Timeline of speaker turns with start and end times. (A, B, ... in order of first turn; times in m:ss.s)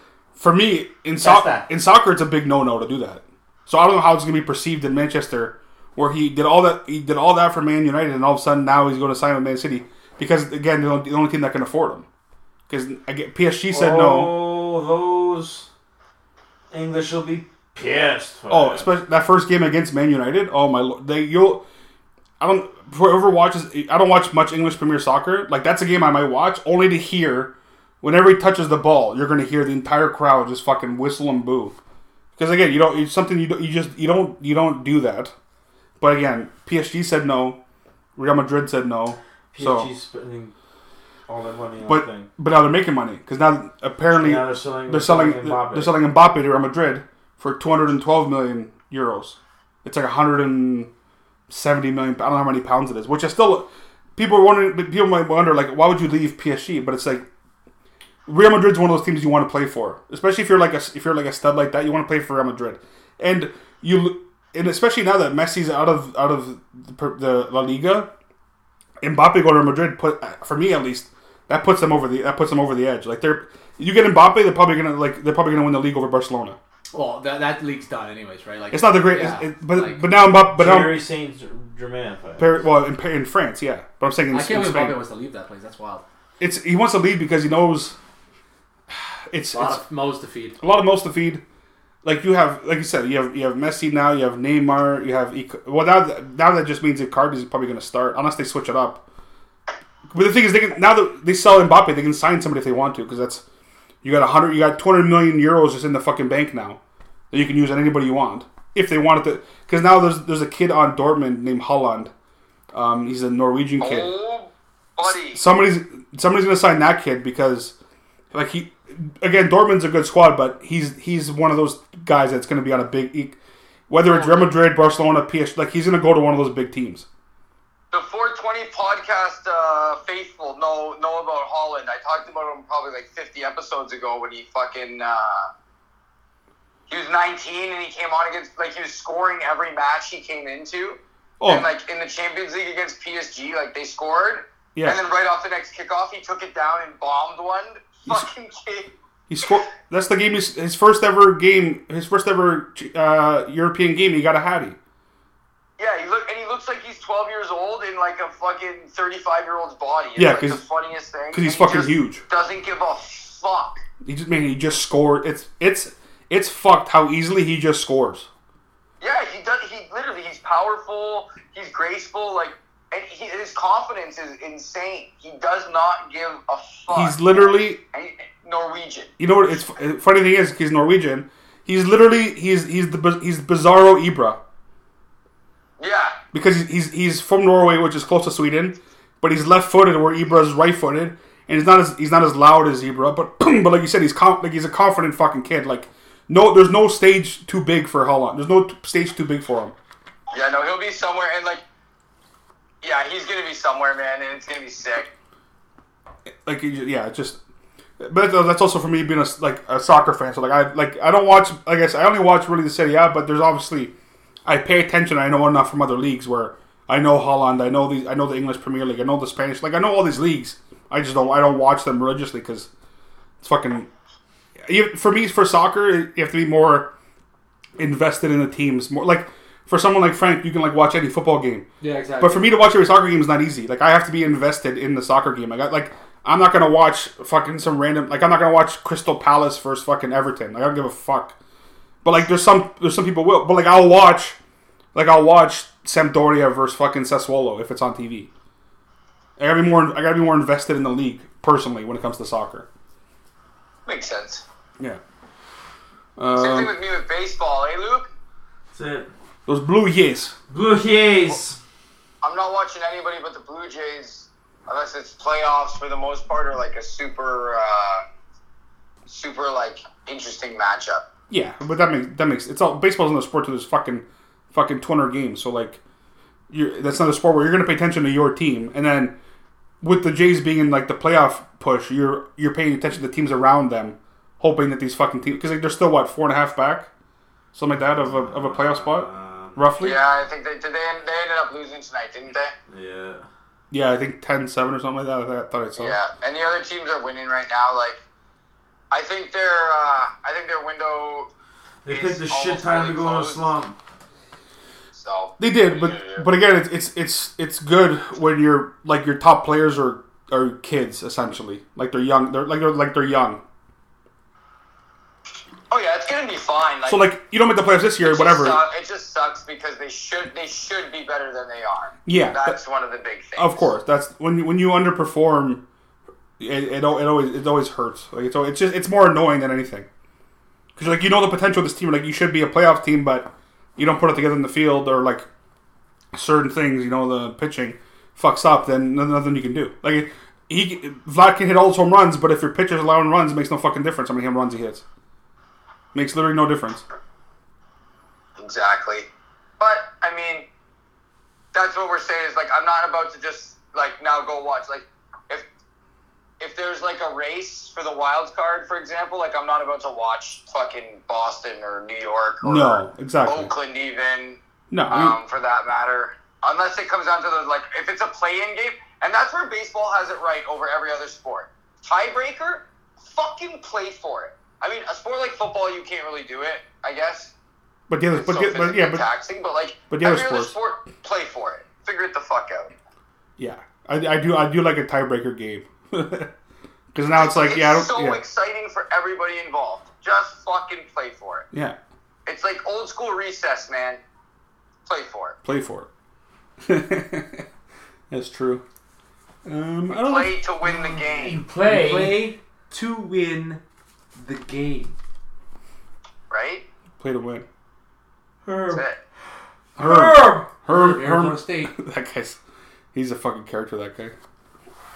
0:00.4-0:12.0 A
0:01.2-0:01.7 B
0:12.7-0:14.4 A
0:13.7-0:15.7 C
0:16.7-0:18.9 C
0:18.5-0:21.6 A
0:22.4-0:31.7 A
0:32.4-0:35.3 A
0:36.0-0:37.6 A
0:38.2-0:39.9 A
0:39.5-0:40.5 C
0:41.3-0:42.3 C
0:41.8-0:50.9 A
0:44.1-0:46.0 C
0:51.5-0:57.2 A
0:58.2-1:08.1 A
1:09.0-1:16.6 A
1:16.9-1:20.0 B
1:18.7-1:21.0 A
1:20.5-1:22.6 C
1:22.4-1:25.0 A
1:24.3-1:26.0 B
1:26.4-1:28.0 A
1:28.9-1:29.8 A
1:29.5-1:30.6 B
1:30.6-1:31.4 A
1:32.0-1:39.0 A
1:40.1-1:43.4 A
1:44.0-1:46.8 A
1:47.3-1:52.1 A
1:52.7-1:54.1 A
1:53.8-1:55.4 D
1:55.0-1:57.7 A
1:58.3-2:03.4 A
2:03.9-2:07.0 A
2:04.1-2:04.3 D
2:07.9-2:15.5 D
2:16.9-2:28.9 D
2:21.4-2:21.7 A
2:29.3-2:34.8 A
2:35.8-2:43.8 D
2:40.2-2:40.6 A
2:41.3-2:42.2 A
2:44.0-2:48.3 A
2:49.0-2:59.1 D
2:56.9-2:57.8 A
2:59.2-3:04.4 A
3:05.8-3:06.2 D
3:06.3-3:19.7 A
3:20.3-3:21.6 D
3:22.8-3:25.1 D
3:26.4-3:27.4 A
3:28.0-3:33.9 A
3:34.4-3:42.7 A
3:43.4-3:43.9 A
3:44.6-3:46.9 A
3:47.8-3:51.6 A
3:51.8-3:52.5 B
3:52.2-4:01.3 A
4:02.0-4:04.4 A
4:04.9-4:08.3 A
4:09.4-4:12.7 A
4:13.8-4:14.4 D
4:16.2-4:16.7 A
4:16.4-4:18.1 D
4:18.7-4:19.1 C
4:19.5-4:20.3 A
4:20.5-4:21.6 C
4:22.2-4:28.0 D
4:29.1-4:31.0 D
4:31.3-4:35.8 A
4:36.5-4:39.1 A
4:39.8-4:46.9 A
4:47.5-4:50.0 A
4:47.8-4:49.6 C
4:49.8-4:52.5 D
4:52.7-4:53.2 C
4:53.7-4:56.0 A
4:55.8-4:58.0 D
4:58.9-5:01.3 D
5:01.8-5:03.8 C
5:01.9-5:03.5 D
5:04.9-5:06.2 D
5:05.4-5:13.4 A
5:15.7-5:17.1 D
5:16.8-5:18.6 A
5:18.0-5:23.7 D
5:22.0-5:22.6 A
5:23.4-5:25.6 A
5:26.4-5:29.9 A
5:30.8-5:35.3 A
5:36.1-5:44.8 A
5:45.9-5:46.8 A
5:48.4-5:49.1 D
5:49.6-5:50.5 D
5:51.5-5:55.4 D
5:56.4-6:17.3 D
6:02.4-6:03.5 A
6:04.7-6:05.2 A
6:17.9-6:19.0 A
6:18.1-6:22.7 D
6:19.9-6:20.5 A
6:23.4-6:26.3 A
6:26.9-6:28.2 A
6:27.1-6:31.5 D
6:31.5-6:31.8 A
6:32.2-6:34.0 D
6:34.8-6:35.3 D
6:35.4-6:35.9 A
6:36.6-6:37.4 A
6:38.1-6:38.6 A
6:39.4-6:40.3 A
6:39.9-6:41.4 D
6:40.6-6:42.3 C
6:41.3-6:43.6 B
6:44.2-6:45.0 B
6:46.3-6:46.6 D
6:47.0-6:47.4 A
6:48.4-6:48.8 C
6:48.7-6:49.0 D
6:49.8-6:52.4 A
6:49.8-6:50.5 C
6:50.7-6:51.7 B
6:52.9-6:54.1 A